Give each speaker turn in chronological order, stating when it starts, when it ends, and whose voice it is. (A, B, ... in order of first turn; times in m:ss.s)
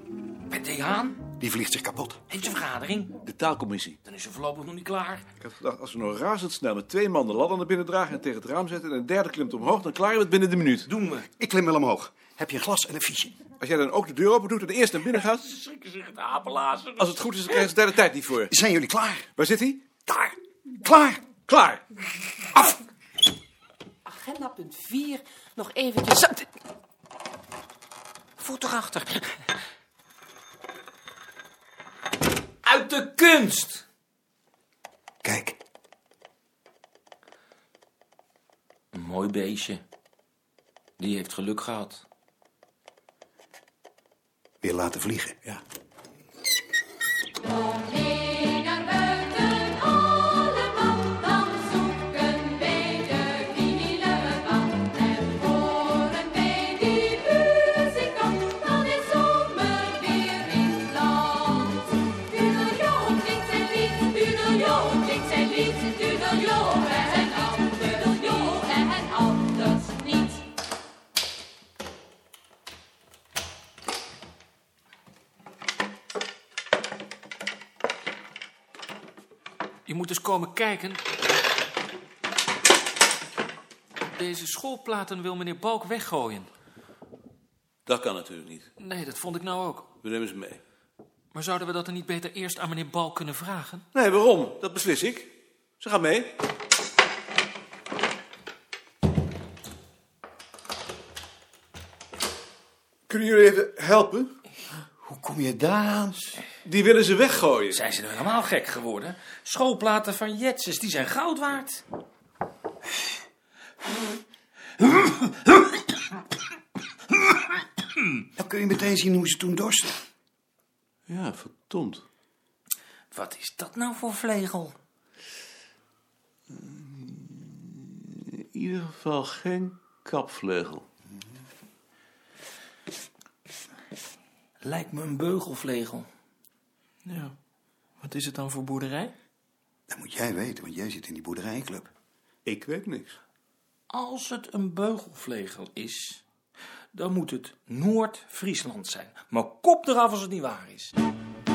0:00.5-0:01.2 A
0:01.4-0:02.2 B
0:02.3-0:03.1 A
0:03.2-0:04.0 C
0:04.0-0:05.2 A
0:05.4-0:10.9 C
0:10.9-0:11.3 A
0:11.4-0:13.3 B
0:13.6-0:15.6 C
0:15.6-0:17.7 A
0:17.0-0:18.5 C
0:18.5-0:19.2 B
0:19.4-0:21.8 C
0:24.1-0:26.2 D
0:28.4-0:29.4 A
0:32.6-0:33.8 A
0:35.3-0:35.5 B
0:38.9-0:39.8 A
0:41.0-0:42.0 A
0:44.6-0:45.3 B
0:48.2-0:49.0 E
0:51.2-1:10.3 E
1:19.9-1:21.0 F
1:19.9-1:20.2 E
1:24.2-1:26.4 F
1:24.2-1:26.5 E
1:27.9-1:28.7 C
1:28.8-1:29.8 E
1:28.9-1:29.9 F
1:30.0-1:30.6 C
1:31.3-1:33.8 E
1:31.4-1:33.8 F
1:33.9-1:36.3 C
1:43.1-1:44.3 C
1:45.0-1:46.3 B
1:46.6-1:47.8 C
1:47.7-1:51.8 A
1:58.4-2:00.0 B
2:01.1-2:02.0 C
2:03.1-2:04.8 A
2:06.5-2:10.9 C
2:14.6-2:16.1 A
2:17.1-2:17.3 E
2:18.0-2:19.1 F
2:18.0-2:19.1 E
2:19.9-2:21.9 B
2:22.4-2:23.2 C
2:23.9-2:26.2 A
2:26.9-2:30.9 A